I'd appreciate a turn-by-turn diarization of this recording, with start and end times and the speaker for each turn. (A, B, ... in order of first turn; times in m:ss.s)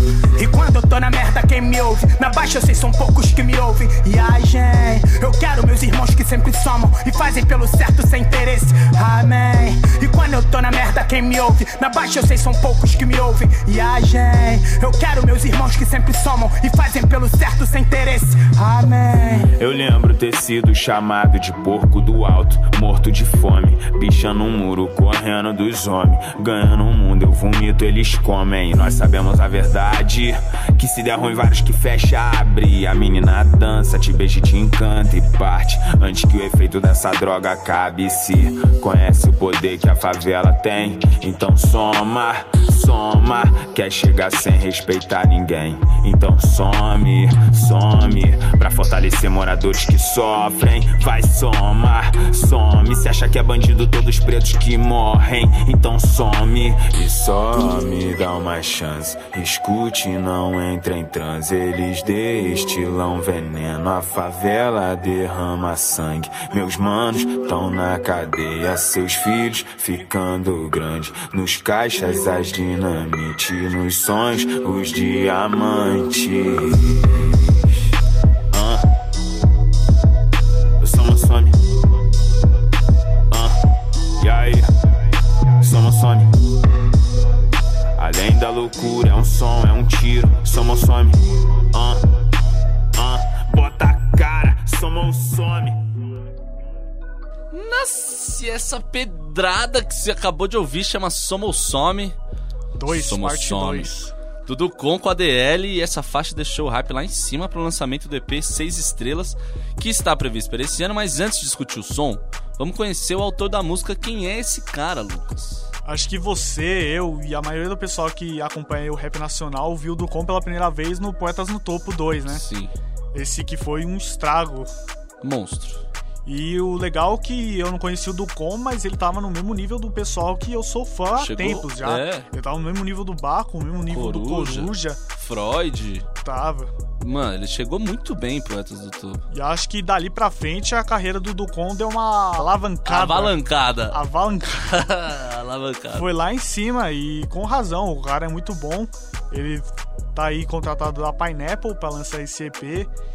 0:00.4-0:19.5 A
0:19.5-1:17.6 B
1:18.5-1:18.8 B
1:20.8-1:21.5 B
1:23.3-1:23.6 B
1:24.2-1:24.7 B
1:25.6-1:26.3 B
1:28.0-1:31.2 B
1:31.7-1:32.1 B
1:32.9-1:35.8 B
1:37.5-1:42.2 C
1:42.7-1:44.1 D
1:42.9-1:43.9 C
1:44.4-1:55.7 C
1:55.8-2:02.4 D
2:02.3-2:02.7 C
2:03.1-2:04.7 D
2:05.2-2:05.8 C
2:06.2-2:15.0 D
2:11.2-2:12.3 C
2:13.9-2:16.1 C
2:16.2-2:16.7 D
2:17.0-2:19.2 C
2:19.3-2:23.4 D
2:22.8-2:24.0 C
2:23.9-2:24.8 D
2:24.7-2:26.1 C
2:25.9-2:32.9 D